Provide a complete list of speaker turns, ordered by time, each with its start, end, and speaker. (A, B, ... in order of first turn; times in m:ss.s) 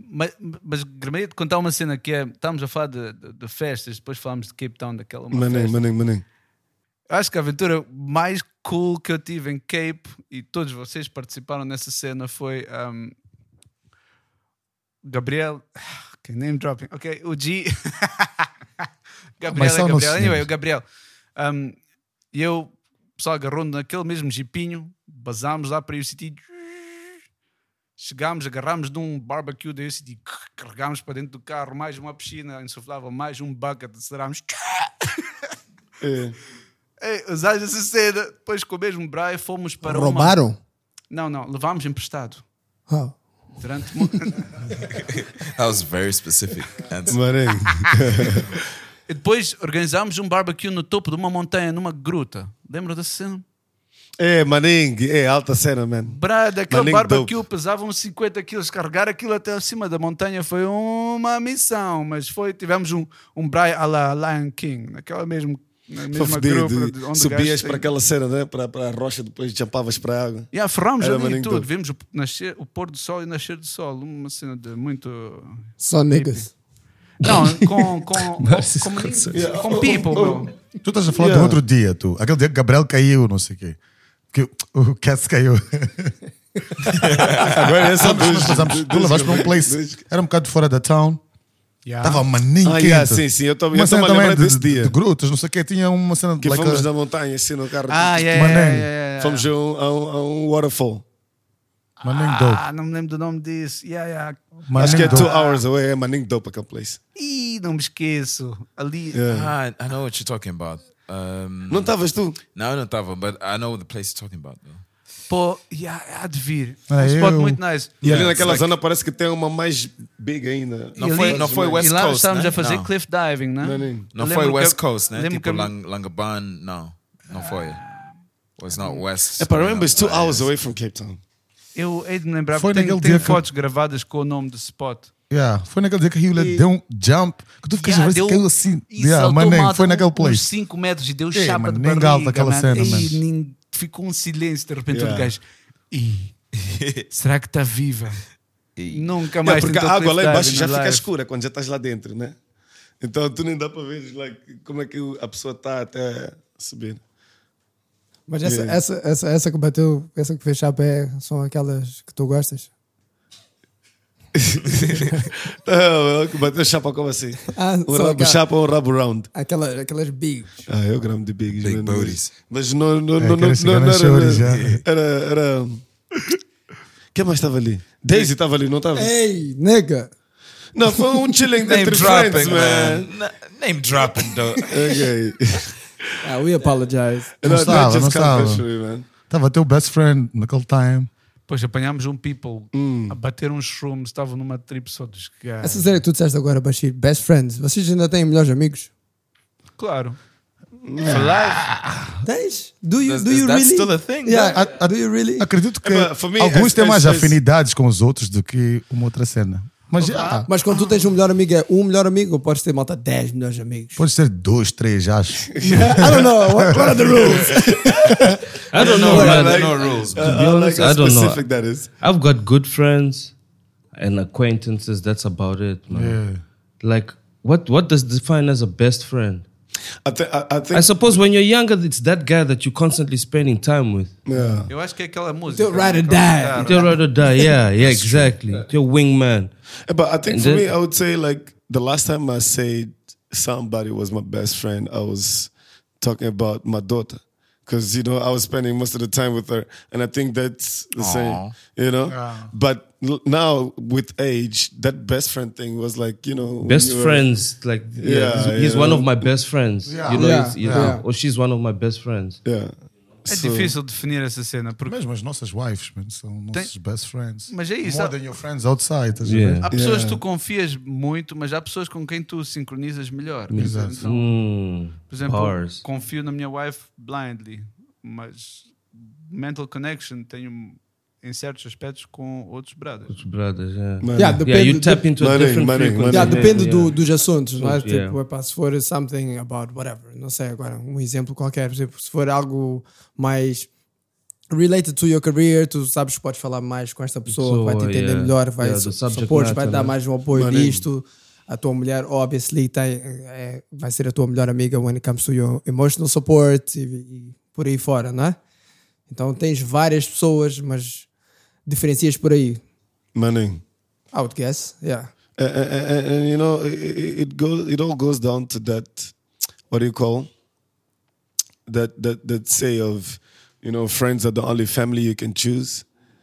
0:00.1-0:05.8 A
0:05.3-0:06.2 B
0:07.1-0:13.2 A
0:15.0-0:18.5 A
0:19.4-0:20.8 A
0:19.5-0:20.5 C
0:21.4-0:21.8 A
0:22.3-0:27.2 A
0:28.0-0:35.2 A
0:36.0-0:36.4 B
0:37.0-0:40.5 A
0:39.8-0:40.6 D
0:41.1-0:42.4 A
0:42.9-0:43.2 D
0:43.6-0:44.5 A
0:45.4-0:47.2 E
0:47.1-0:48.6 B
0:49.1-0:53.4 A
0:54.2-0:57.4 B
0:56.1-1:07.9 A
1:06.1-1:11.7 B
1:10.5-1:16.5 A
1:15.8-1:16.5 D
1:17.2-1:19.4 F
1:17.2-1:20.5 A
1:19.3-1:20.5 B
1:20.8-1:23.8 C
1:21.2-1:21.6 B
1:24.3-1:26.1 C
1:26.9-1:31.2 C
1:27.0-1:27.5 E
1:27.4-1:30.0 B
1:31.8-1:32.3 A
1:32.0-1:36.9 C
1:32.6-1:35.0 B
1:36.4-1:38.4 B
1:37.9-1:39.5 A
1:38.3-1:38.9 C
1:39.2-1:41.0 B
1:42.0-1:42.6 C
1:42.0-1:45.6 A
1:44.7-1:45.3 C
1:44.8-1:47.0 B
1:47.2-1:49.2 A
1:49.1-1:49.5 B
1:49.3-1:52.0 E
1:51.7-1:52.4 B
1:52.5-1:54.8 E
1:55.3-1:58.7 A
1:56.9-1:58.3 C
1:58.0-1:58.6 E
1:58.0-2:01.9 B
2:01.0-2:02.9 E
2:01.0-2:05.7 A
2:03.6-2:04.1 B
2:04.1-2:07.9 E
2:07.4-2:08.0 A
2:08.6-2:10.5 E
2:09.4-2:11.2 B
2:11.8-2:15.1 A
2:12.5-2:13.4 C
2:15.3-2:20.5 C
2:17.8-2:26.3 A
2:21.3-2:23.2 C
2:24.9-2:25.3 B
2:26.6-2:27.1 E
2:27.1-2:28.2 A
2:28.8-2:29.2 E
2:28.9-2:31.0 A
2:29.4-2:32.4 B
2:33.0-2:37.0 B
2:38.3-2:42.7 D
2:38.4-2:38.8 B
2:44.4-2:49.3 B
2:47.6-2:48.4 D
2:49.3-2:50.7 D
2:50.7-2:55.8 B
2:51.6-2:52.3 E
2:53.2-2:54.8 C
2:54.5-2:54.8 E
2:57.1-2:59.1 B
2:59.0-3:00.1 D
3:00.7-3:03.1 B
3:01.6-3:05.0 E
3:02.0-3:02.2 A
3:04.7-3:05.8 B
3:06.2-3:07.3 D
3:07.4-3:09.1 B
3:07.4-3:08.7 C
3:09.3-3:11.1 C
3:11.5-3:15.9 A
3:12.7-3:13.2 B
3:15.6-3:18.9 D
3:19.8-3:20.2 A
3:20.8-3:21.3 B
3:21.0-3:22.0 A
3:22.2-3:25.5 D
3:23.0-3:24.6 E
3:24.4-3:30.5 C
3:25.8-3:27.4 B
3:30.0-3:31.0 A
3:30.5-3:34.0 D
3:34.0-3:37.2 C
3:35.5-3:36.1 B
3:35.7-3:38.0 D
3:37.1-3:41.9 B
3:38.7-3:41.4 F
3:38.8-3:40.4 E
3:39.0-3:39.4 D
3:42.0-3:43.3 F
3:44.0-3:46.2 F
3:45.9-3:46.4 C
3:46.8-3:49.4 F
3:50.0-3:51.2 B
3:50.7-3:54.2 F
3:54.3-3:54.7 B
3:54.7-3:57.0 A
3:55.5-3:57.3 D
3:56.6-3:59.5 F
3:57.8-3:58.4 E
3:59.9-4:17.4 B
4:00.3-4:00.7 F
4:11.0-4:11.6 E
4:12.1-4:12.5 C
4:16.6-4:22.4 F
4:18.0-4:19.4 B
4:19.9-4:21.0 C
4:20.1-4:21.0 D
4:22.4-4:22.7 B
4:23.3-4:23.8 B
4:23.3-4:25.0 A
4:24.8-4:29.7 C
4:27.5-4:28.2 A
4:29.2-4:29.7 F
4:29.6-4:43.2 A
4:29.7-4:30.2 B
4:33.5-4:35.8 F
4:33.5-4:34.1 C
4:43.1-4:47.0 F
4:44.0-4:44.4 B
4:44.2-4:45.1 D
4:45.2-4:46.6 B
4:46.1-4:53.7 D
4:47.6-4:48.2 F
4:54.5-5:08.4 D
4:57.3-5:00.0 F
5:00.3-5:00.8 B
5:09.1-5:11.1 D
5:11.7-5:12.6 D
5:13.2-5:13.6 B
5:14.1-5:15.1 D
5:15.4-5:19.1 B
5:19.7-5:20.3 B
5:21.7-5:25.8 B